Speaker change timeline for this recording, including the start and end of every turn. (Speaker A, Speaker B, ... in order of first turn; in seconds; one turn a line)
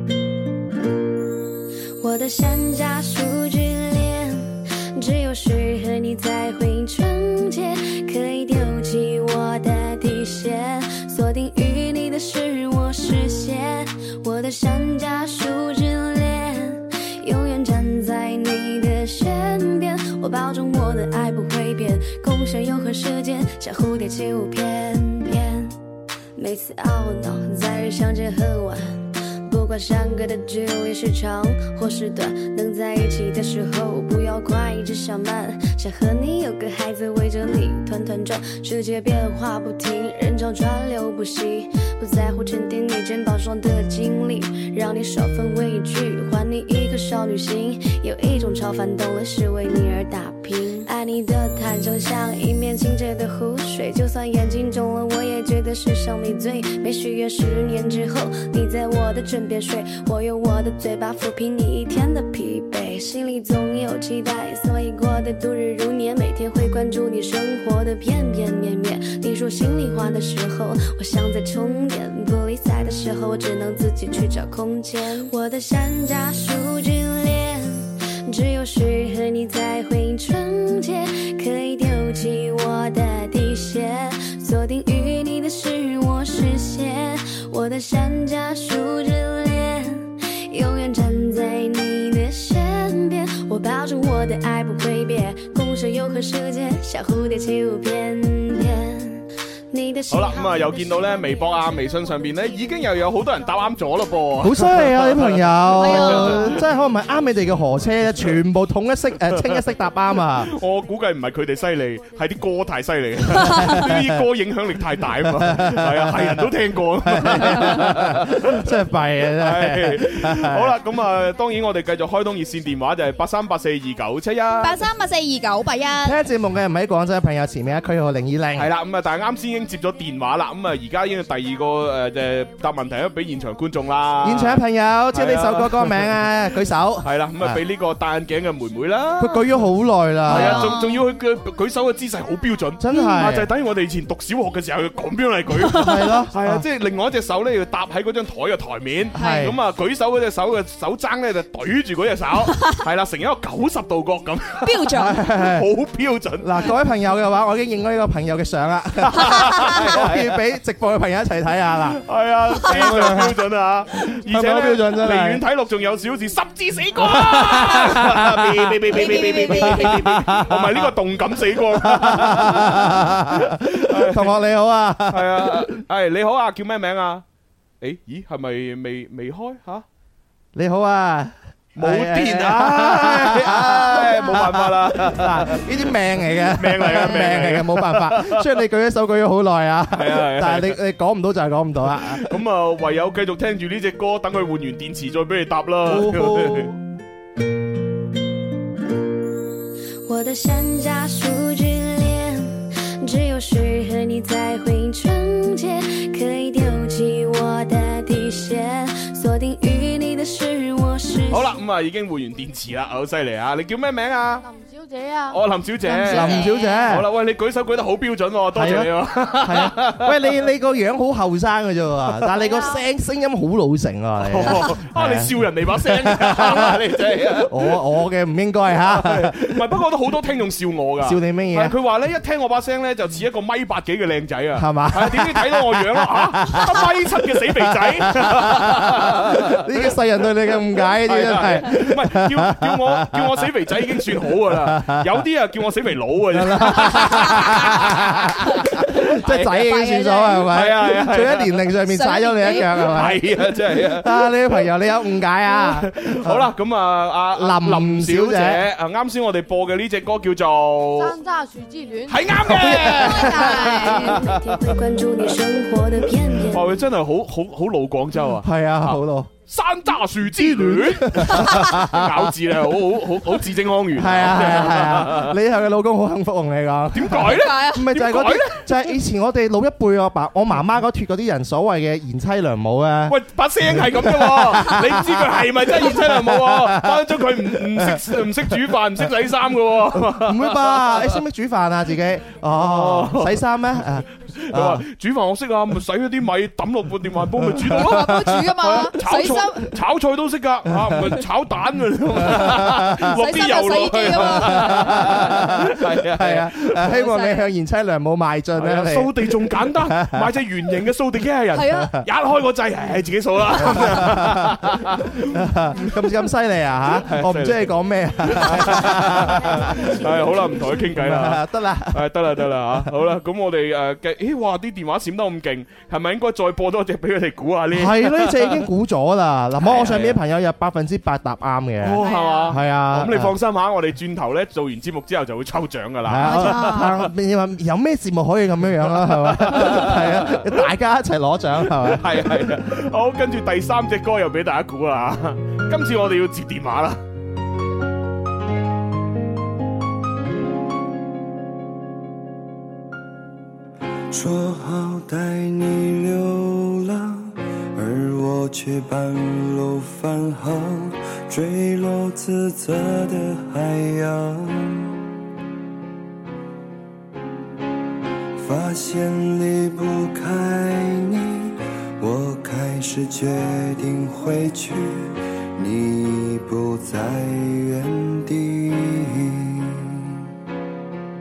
Speaker A: 2.0-25.7
Speaker A: 26.4-101.8
Speaker B: 100.1-106.6
Speaker C: 101.9-102.2
Speaker C: 103.7-104.2
Speaker D: 104.4-110.5
Speaker E: 105.8-106.5
Speaker B: 108.1-108.4
Speaker B: 109.2-109.6
Speaker B: 110.4-118.7
Speaker C: 110.8-112.9
Speaker D: 113.4-114.2
Speaker E: 113.4-113.8
Speaker D: 115.0-120.8
Speaker B: 119.3-124.8
Speaker E: 124.6-126.2
Speaker D: 126.0-128.7
Speaker B: 128.5-136.1
Speaker D: 134.2-137.6
Speaker B: 137.0-139.6
Speaker D: 139.2-140.8
Speaker B: 140.2-156.7
Speaker E: 140.3-141.0
Speaker D: 142.8-143.5
Speaker E: 142.9-143.2
Speaker E: 145.6-146.2
Speaker D: 145.7-146.6
Speaker D: 149.1-149.6
Speaker E: 149.1-149.5
Speaker E: 152.5-152.8
Speaker E: 154.6-155.2
Speaker D: 154.9-155.7
Speaker D: 156.4-162.0
Speaker B: 159.0-160.4
Speaker E: 159.3-159.7
Speaker B: 162.0-174.3
Speaker D: 162.6-163.4
Speaker D: 164.2-165.4
Speaker D: 166.9-170.9
Speaker E: 168.9-170.1
Speaker D: 171.7-175.7
Speaker B: 175.1-177.2
Speaker B: 177.8-179.8
Speaker D: 180.5-192.3
Speaker B: 181.8-185.8
Speaker B: 186.4-188.6
Speaker B: 189.9-190.8
Speaker B: 191.9-196.7
Speaker D: 195.8-196.7
Speaker A: 200.1-211.6
Speaker B: 211.3-214.4
Speaker C: 214.4-216.4
Speaker B: 215.3-220.3
Speaker E: 216.1-216.8
Speaker D: 216.1-217.1
Speaker D: 218.5-226.8
Speaker C: 222.3-222.8
Speaker B: 224.2-227.8
Speaker D: 227.4-229.6
Speaker B: 228.8-239.7
Speaker D: 231.0-231.7
Speaker D: 234.6-237.0
Speaker D: 237.6-243.3
Speaker B: 240.9-249.7
Speaker D: 244.4-245.1
Speaker D: 246.3-256.4
Speaker E: 249.4-250.5
Speaker B: 250.5-251.6
Speaker E: 251.8-252.9
Speaker B: 252.8-254.3
Speaker B: 255.6-261.2
Speaker D: 257.3-258.6
Speaker C: 260.9-262.6
Speaker B: 262.1-264.3
Speaker D: 262.4-263.6
Speaker E: 262.9-264.1
Speaker A: 263.9-266.7
Speaker B: 266.5-275.4
Speaker D: 268.4-269.3
Speaker D: 270.3-272.3
Speaker D: 273.9-283.2
Speaker B: 276.9-278.6
Speaker E: 277.3-277.9
Speaker B: 283.1-291.2
Speaker D: 283.7-288.2
Speaker D: 289.9-294.8
Speaker B: 292.6-293.4
Speaker B: 294.4-306.9
Speaker D: 297.4-298.4
Speaker E: 297.7-299.7
Speaker D: 300.7-301.2
Speaker D: 302.1-303.2
Speaker E: 303.1-305.1
Speaker D: 304.1-310.3
Speaker E: 306.9-307.4
Speaker B: 308.6-316.0
Speaker E: 311.5-311.9
Speaker D: 313.6-314.7
Speaker D: 315.3-320.1
Speaker B: 317.0-328.7
Speaker D: 320.7-322.1
Speaker D: 327.7-333.3
Speaker B: 329.6-330.2
Speaker B: 331.8-337.1
Speaker E: 332.0-332.6
Speaker D: 336.1-342.2
Speaker E: 336.2-337.0
Speaker B: 338.9-340.6
Speaker B: 341.7-347.0
Speaker F: 354.1-365.0
Speaker F: 368.4-380.2